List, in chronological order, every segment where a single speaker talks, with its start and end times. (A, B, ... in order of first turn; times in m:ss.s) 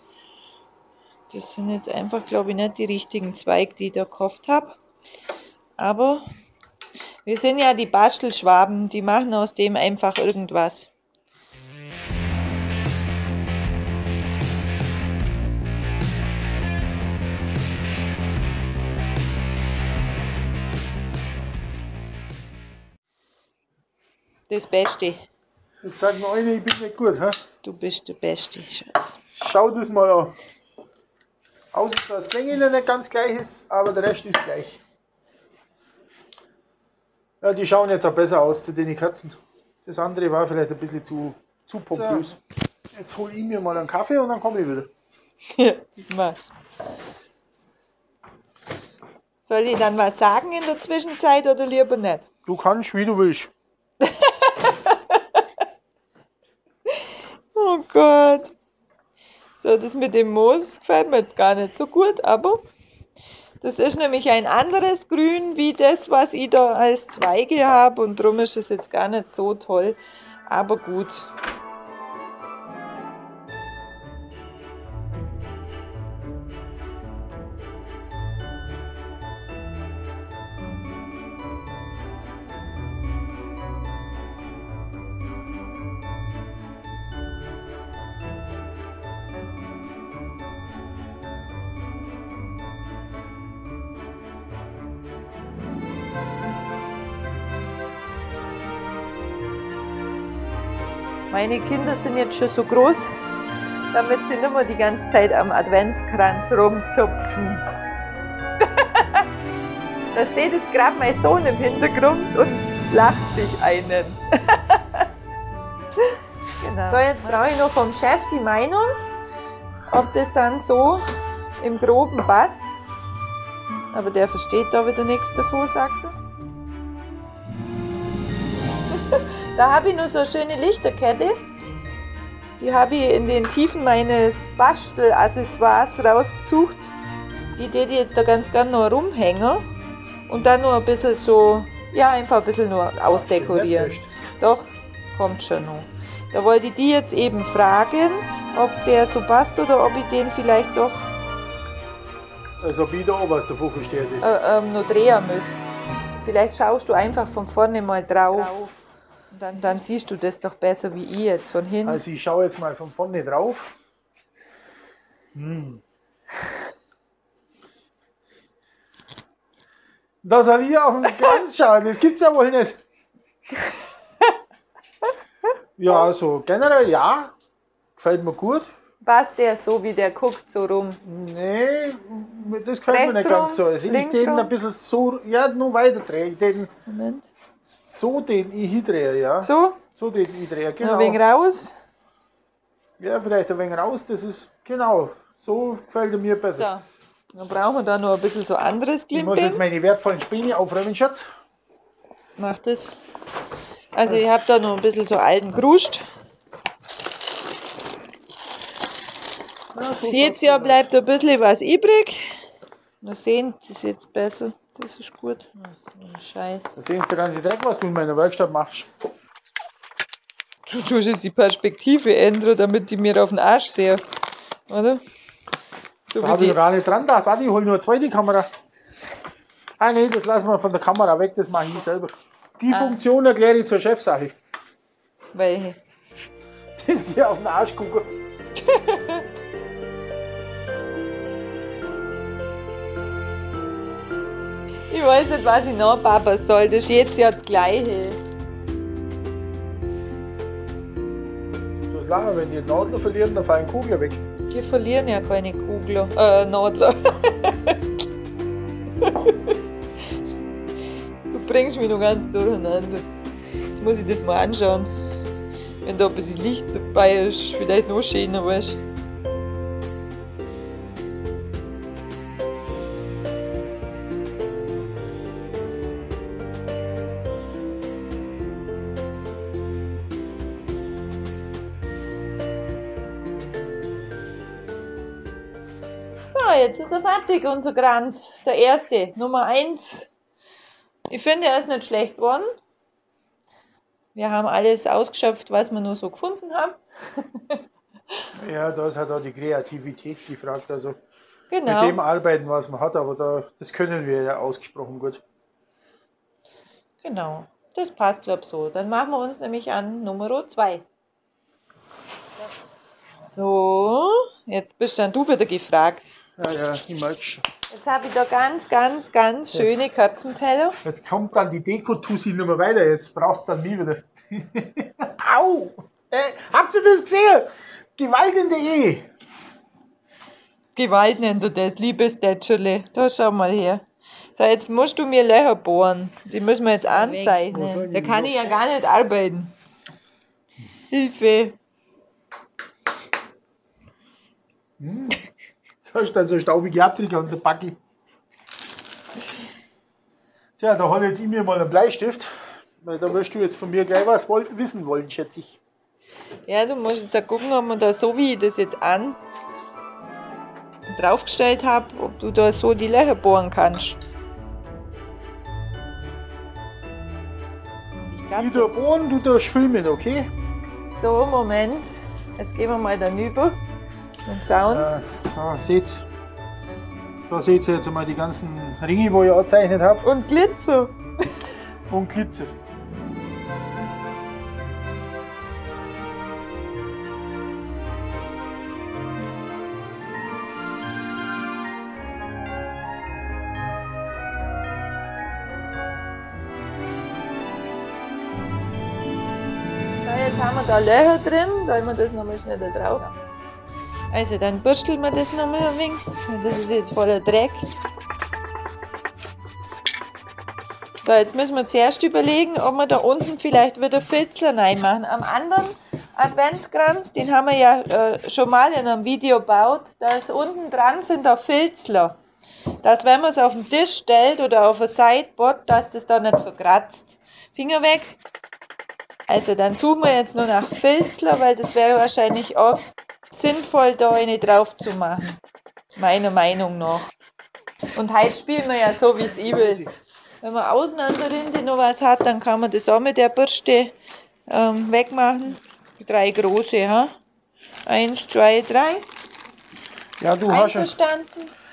0:01.3-0:04.8 A
0:05.8-0:06.3 A
0:07.2-0:10.9 A
0:24.5-0:25.2 A
0:25.8-0:27.4 B
0:27.6-0:29.2 A
0:29.3-0:30.4 B
0:31.7-0:34.8 B
0:37.4-0:42.4 B
0:42.9-0:44.9 B
0:45.5-0:46.5 A
0:49.4-0:52.3 A
0:52.5-0:53.5 B
0:54.0-0:55.6 A
0:56.9-0:58.5 A
0:59.6-1:02.6 A
1:03.6-1:11.3 A
1:41.3-1:43.1 A
1:43.9-1:47.7 A
1:48.6-1:49.3 A
1:50.1-1:55.1 A
1:56.0-1:59.0 A
1:59.9-2:01.0 A
2:01.6-2:02.7 A
2:03.9-2:06.2 A
2:08.9-2:11.4 A
2:12.6-2:16.9 A
2:17.6-2:19.7 A
2:20.3-2:31.1 A
2:23.1-2:24.1 B
2:32.6-2:34.2 B
2:34.2-2:38.7 A
2:39.3-2:42.0 A
2:41.8-2:43.7 B
2:45.3-2:45.8 B
2:50.2-2:52.8 B
2:55.8-2:57.3 B
2:58.0-2:58.6 B
2:59.0-3:01.0 A
3:01.0-3:06.7 B
3:02.9-3:04.5 A
3:06.9-3:07.3 A
3:07.7-3:11.2 B
3:09.4-3:09.8 A
3:10.8-3:11.8 A
3:13.0-3:16.7 B
3:16.6-3:19.6 A
3:19.1-3:21.3 B
3:22.4-3:22.9 A
3:23.9-3:26.1 A
3:29.7-3:30.9 B
3:30.0-3:32.4 A
3:33.0-3:36.8 A
3:36.8-3:38.9 B
3:40.6-3:44.0 A
3:44.7-3:45.0 A
3:46.1-3:46.6 A
3:46.2-3:48.5 B
3:49.8-3:54.3 B
3:52.7-3:53.0 A
3:55.3-3:55.8 A
3:56.8-3:58.1 B
3:58.6-3:59.2 A
4:04.9-4:08.2 A
4:11.9-4:14.2 B
4:14.5-4:17.8 A
4:19.0-4:19.6 A
4:21.3-4:23.1 A
4:23.7-4:24.9 A
4:25.8-4:28.8 A
4:46.3-4:50.1 A
4:51.1-4:52.5 A
4:54.1-4:57.6 A
4:58.4-5:01.0 B
5:01.5-5:02.0 A
5:01.6-5:05.2 B
5:07.0-5:10.8 A
5:13.3-5:16.1 A
5:16.4-5:17.4 B
5:17.7-5:20.8 A
5:20.8-5:29.1 B
5:30.8-5:33.8 A
5:34.3-5:39.5 A
5:37.2-5:38.5 B
5:40.9-5:41.6 A
5:44.8-5:45.2 B
5:45.8-5:47.8 B
5:50.6-5:55.6 B
5:56.5-5:59.2 A
6:00.9-6:04.0 A
6:08.0-6:08.8 A
6:08.4-6:10.3 B
6:10.9-6:13.6 A
6:14.2-6:14.9 A
6:14.7-6:16.1 B
6:17.3-6:20.1 B
6:20.0-6:21.5 A
6:21.9-6:22.5 B
6:40.0-6:43.1 A
6:44.1-6:47.7 A
6:51.0-7:02.2 A
7:02.8-7:08.2 A
7:09.3-7:15.4 A
7:15.9-7:17.1 A
7:17.9-7:19.9 A
7:19.5-7:19.9 B
7:20.4-7:23.9 A
7:24.5-7:27.1 A
7:27.8-7:29.0 A
7:30.2-7:30.9 B
7:30.4-7:31.5 A